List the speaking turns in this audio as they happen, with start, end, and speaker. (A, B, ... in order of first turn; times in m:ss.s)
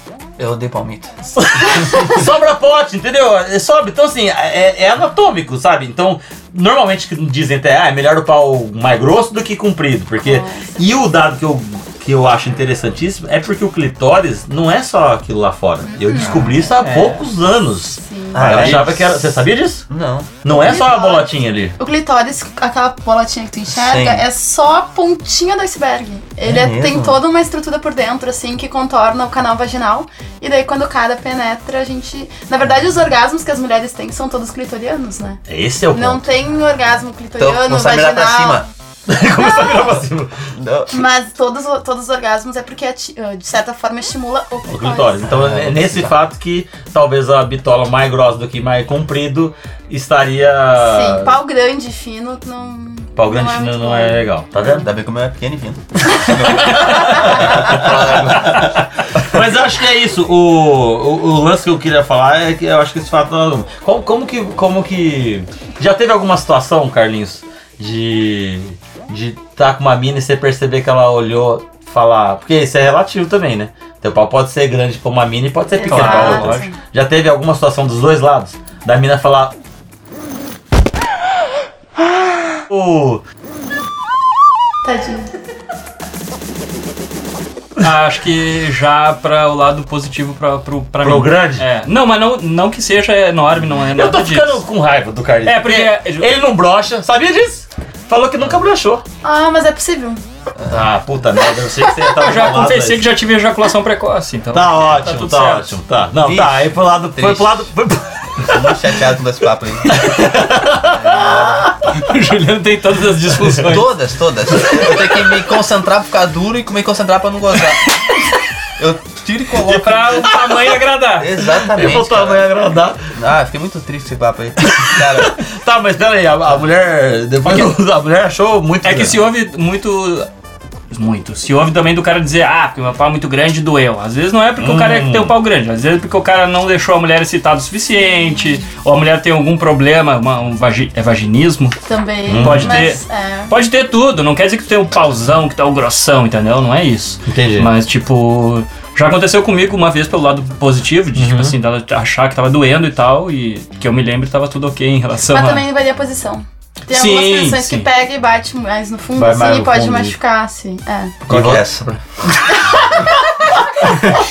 0:00.4-0:01.1 A
0:01.3-0:19.8 B
0:10.2-0:11.1 C
0:15.8-0:16.7 C
0:16.7-0:17.2 D
0:18.0-0:18.5 C
0:18.3-0:19.4 A
0:19.9-0:20.3 A
0:20.4-0:21.8 B
0:20.5-0:35.4 C
0:23.7-0:24.2 A
0:26.4-0:27.2 A
0:35.5-0:36.3 B
0:35.9-0:38.7 C
0:37.4-0:38.6 A
0:39.1-0:40.5 B
0:39.4-0:39.9 C
0:40.6-0:41.0 A
0:40.9-0:45.3 C
0:44.7-0:51.4 B
0:45.3-0:46.1 A
0:50.8-0:54.8 C
0:53.2-0:54.9 B
0:54.7-0:58.7 A
0:56.3-1:19.5 B
1:15.7-1:16.7 C
1:15.8-1:16.7 D
1:22.5-1:23.2 B
1:24.8-1:25.3 C
1:27.8-1:34.6 D
1:31.0-1:31.6 B
1:33.9-1:39.0 B
1:35.4-1:36.3 D
1:39.2-1:40.2 C
1:40.7-1:43.0 B
1:42.2-1:45.7 D
1:44.5-1:48.8 B
1:46.2-1:47.7 A
1:48.4-1:50.0 A
1:49.9-1:51.7 B
1:50.9-1:51.7 A
1:51.9-1:53.9 D
1:53.6-1:58.0 A
1:58.8-2:00.3 A
1:59.6-2:01.4 D
2:00.2-2:00.7 B
2:01.2-2:02.5 A
2:01.5-2:03.0 B
2:03.1-2:05.4 A
2:04.6-2:09.2 B
2:08.8-2:10.3 D
2:10.9-2:21.8 D
2:14.6-2:15.3 B
2:21.8-2:23.5 C
2:22.3-2:22.8 B
2:22.3-2:35.6 D
2:27.3-2:27.7 B
2:31.1-2:31.6 B
2:35.3-2:41.2 C
2:36.9-2:37.9 D
2:39.2-2:40.2 B
2:41.3-2:41.6 B
2:41.3-2:42.0 A